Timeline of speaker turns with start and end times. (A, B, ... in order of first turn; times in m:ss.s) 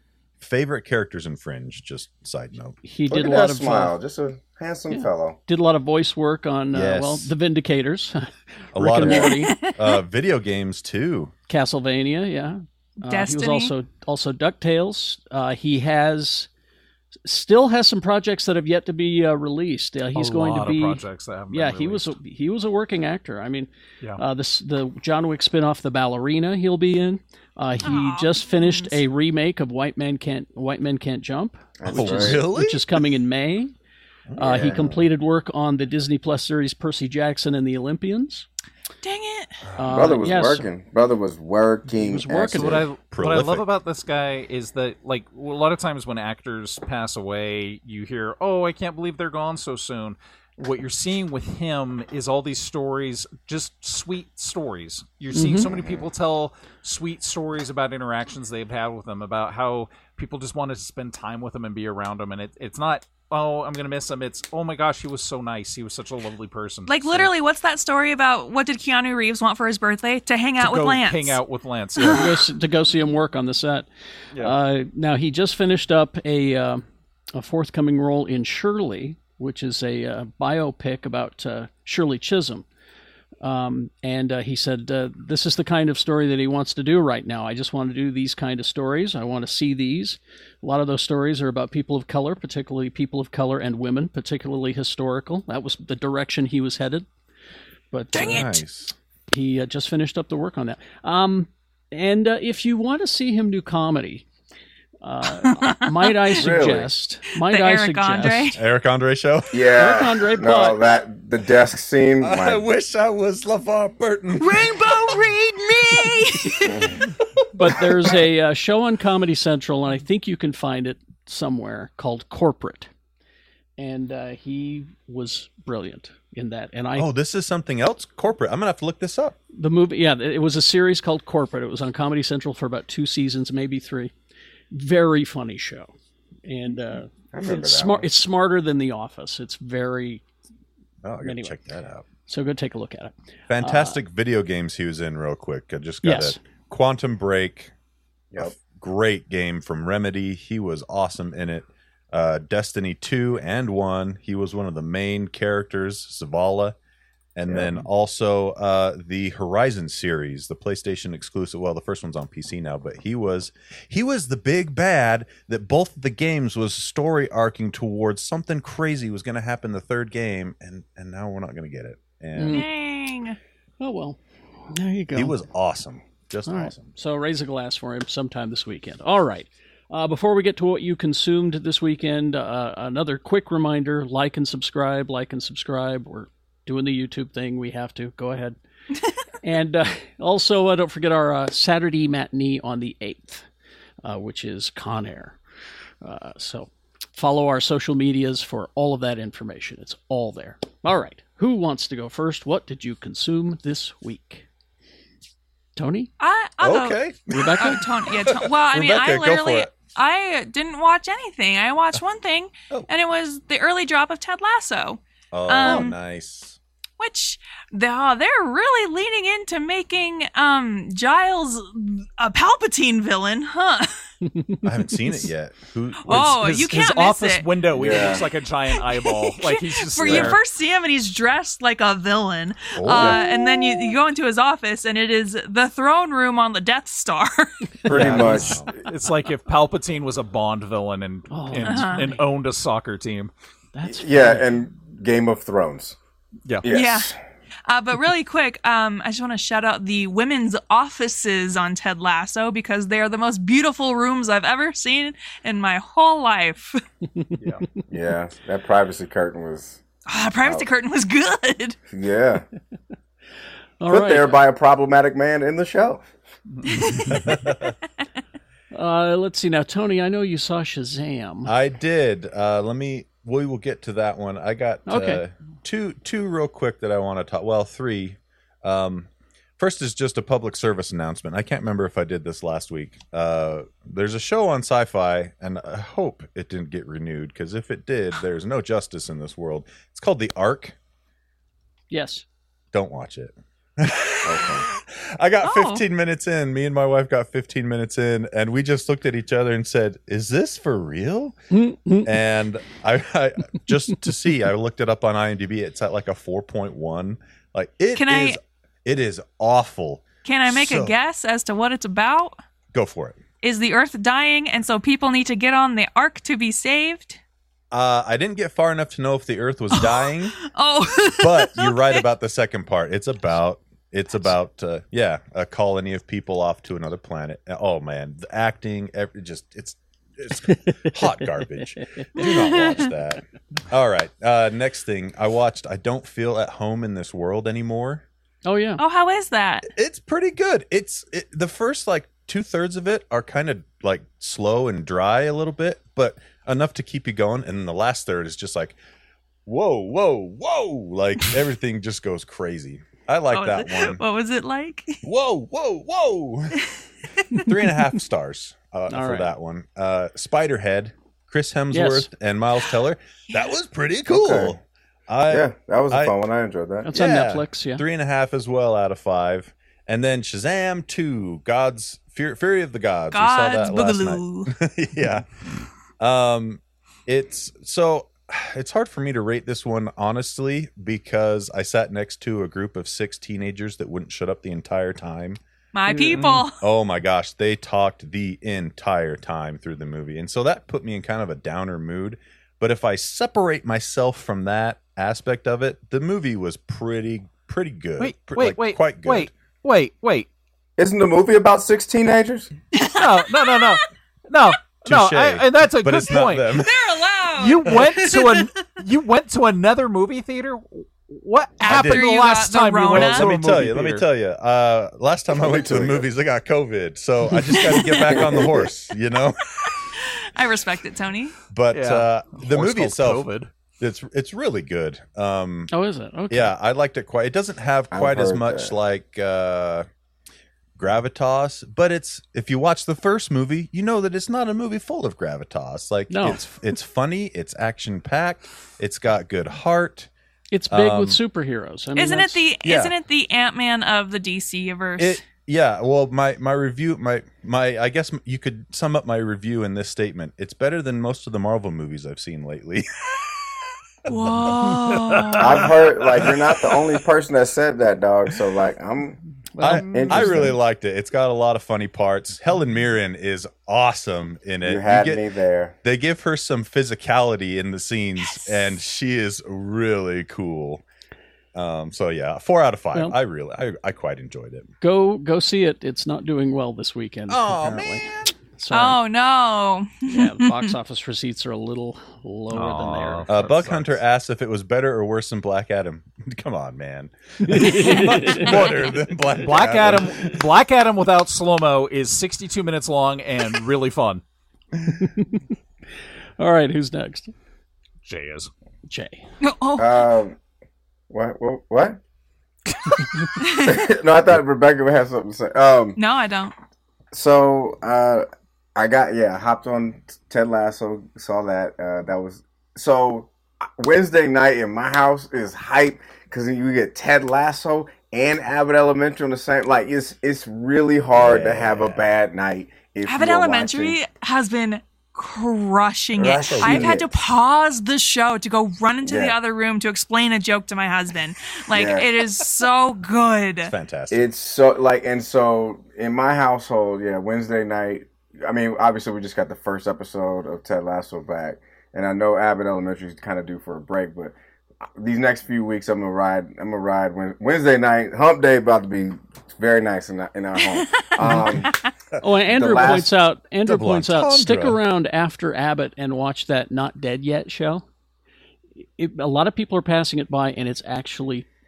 0:00.4-0:02.8 A
0:02.8-0:03.9 B
0:03.1-0:05.4 C
0:04.9-0:09.5 B
0:06.7-0:07.3 A
0:08.7-0:11.3 A
0:09.1-0:09.8 D
0:11.5-0:16.5 B
0:13.0-0:13.7 D
0:17.2-0:33.7 B
0:20.1-0:22.1 E
0:27.8-0:29.0 D
0:31.8-0:32.4 C
0:31.9-0:33.0 A
0:34.3-0:35.0 A
0:34.4-0:38.5 B
0:34.4-0:34.8 C
0:39.0-0:39.6 D
0:39.8-0:40.7 B
0:39.8-0:42.8 C
0:41.9-0:42.8 B
0:42.6-1:07.3 E
0:43.1-0:43.6 A
0:55.3-0:55.7 B
1:06.9-1:11.4 D
1:10.6-1:12.4 E
1:12.0-1:12.4 D
1:12.1-1:13.9 B
1:14.4-1:22.6 B
1:23.4-1:37.1 B
1:37.9-1:38.6 B
1:38.1-1:38.9 A
1:38.2-1:38.5 D
1:39.3-1:44.2 B
1:45.0-1:48.6 B
1:45.4-1:46.3 D
1:46.4-1:46.9 C
1:47.4-1:48.6 D
1:48.5-1:49.9 A
1:49.5-1:52.6 C
1:49.7-1:50.8 B
1:52.2-1:55.2 A
1:54.4-1:56.9 D
1:57.5-2:02.9 B
2:03.8-2:07.1 B
2:07.0-2:09.4 A
2:09.5-2:14.1 B
2:14.7-2:15.9 B
2:16.4-2:20.2 B
2:17.3-2:18.1 C
2:21.0-2:22.0 A
2:21.2-2:21.6 B
2:22.3-2:24.0 B
2:23.5-2:27.7 A
2:26.0-2:26.4 B
2:28.4-2:36.8 A
2:37.4-2:52.6 A
2:37.5-2:37.8 C
2:52.4-2:52.7 B
2:52.5-2:53.4 D
2:53.8-2:54.2 B
2:54.7-2:55.4 B
2:55.1-2:56.9 A
2:56.5-3:08.6 B
3:09.4-3:13.5 B
3:14.0-3:15.4 B
3:16.0-3:24.4 B
3:25.8-3:26.1 B
3:26.2-3:27.0 D
3:26.6-3:29.7 A
3:27.3-3:27.8 B
3:27.6-3:36.0 D
3:35.3-3:36.6 A
3:37.0-3:43.9 D
3:44.2-3:45.3 B
3:44.6-3:46.5 A
3:46.0-3:48.0 D
3:46.1-3:50.4 E
3:47.7-3:48.2 C
3:48.8-3:57.5 D
3:50.1-3:50.3 A
3:52.7-3:53.2 A
3:57.9-3:58.7 C
3:57.9-3:58.7 A
3:57.9-4:03.3 E
4:01.3-4:02.2 B
4:01.6-4:02.0 D
4:03.7-4:04.4 B
4:03.9-4:06.0 C
4:06.6-4:07.2 C
4:06.7-4:07.1 D
4:07.7-4:16.8 D
4:17.2-4:17.6 B
4:17.9-4:19.8 C
4:20.1-4:21.8 D
4:21.9-4:22.4 C
4:23.8-4:24.4 B
4:23.9-4:26.0 C
4:26.5-4:26.9 E
4:26.7-4:27.2 D
4:27.1-4:27.7 A
4:28.7-4:31.5 B
4:31.4-4:39.1 A
4:34.9-4:35.2 B
4:39.6-4:50.8 A
4:51.9-4:52.2 B
4:52.7-5:01.4 A
4:54.2-4:54.6 C
4:55.4-4:55.8 D
5:01.5-5:02.1 B
5:02.0-5:10.9 A
5:07.9-5:08.4 D
5:10.2-5:12.4 D
5:12.7-5:13.2 A
5:13.4-5:17.2 D
5:17.7-5:20.3 A
5:19.7-5:22.0 D
5:21.2-5:38.0 A
5:30.5-5:32.2 B
5:32.2-5:32.9 D
5:38.4-5:38.8 B
5:38.8-5:39.7 D
5:39.7-5:48.8 A
5:49.4-5:54.0 A
5:53.3-5:55.0 D
5:55.0-5:56.6 A
5:57.4-6:06.1 A
5:58.9-5:59.3 B
6:01.7-6:02.1 B
6:04.1-6:04.5 C
6:05.3-6:06.9 C
6:06.8-6:07.8 B
6:06.9-6:25.4 A
6:13.1-6:14.5 D
6:25.7-6:26.6 D
6:25.9-6:26.4 B
6:26.6-6:39.3 A
6:38.0-6:40.3 E
6:40.8-6:42.5 C
6:42.7-6:43.8 D
6:43.0-6:46.6 E
6:44.8-6:46.7 A
6:46.5-6:48.6 D
6:47.4-6:54.0 E
6:51.6-6:53.2 D
6:51.7-6:52.0 A
6:52.9-6:59.7 A
6:55.4-6:56.1 C
6:57.8-6:58.1 D
6:58.0-6:58.7 C
7:00.0-7:01.4 D
7:01.5-7:03.3 A
7:01.7-7:03.5 E
7:03.8-7:05.7 A
7:05.7-7:06.5 B
7:06.3-7:09.9 A
7:07.9-7:08.7 C
7:10.8-7:20.1 A
7:16.1-7:16.4 B
7:20.5-7:22.5 B
7:20.7-7:21.2 A
7:22.0-7:25.2 D
7:22.6-7:22.9 A
7:25.0-7:33.4 A
7:34.1-7:35.6 D
7:34.1-7:34.8 A
7:35.4-7:39.2 C
7:39.5-7:40.4 B
7:39.6-7:45.2 A
7:39.8-7:40.6 C
7:44.6-7:45.8 C
7:45.8-7:50.8 A
7:51.5-7:54.7 A
7:54.8-7:59.0 B
7:57.3-7:58.3 A
7:58.7-8:00.7 D
8:00.1-8:03.3 B
8:02.5-8:04.0 E
8:03.3-8:10.4 A
8:07.4-8:08.6 B
8:09.4-8:14.2 E
8:14.9-8:15.4 B
8:16.4-8:17.3 B
8:18.0-8:18.5 E
8:18.9-8:19.2 B
8:19.4-8:20.0 D
8:19.8-8:20.3 C
8:21.1-8:22.0 C
8:23.4-8:23.8 D
8:23.4-8:26.0 C
8:26.0-8:26.5 D
8:27.1-8:28.2 C
8:28.8-8:44.0 C
8:41.1-8:42.1 A
8:43.0-8:53.7 D
8:46.2-8:47.1 C
8:46.5-8:47.0 A
8:49.0-8:49.4 C
8:51.7-8:52.1 C
8:53.6-8:54.3 A
8:54.1-9:04.3 C
9:05.0-9:11.8 C
9:10.7-9:11.1 D
9:12.2-9:17.8 B
9:12.5-9:13.1 C
9:13.6-9:14.8 A
9:19.0-9:21.4 B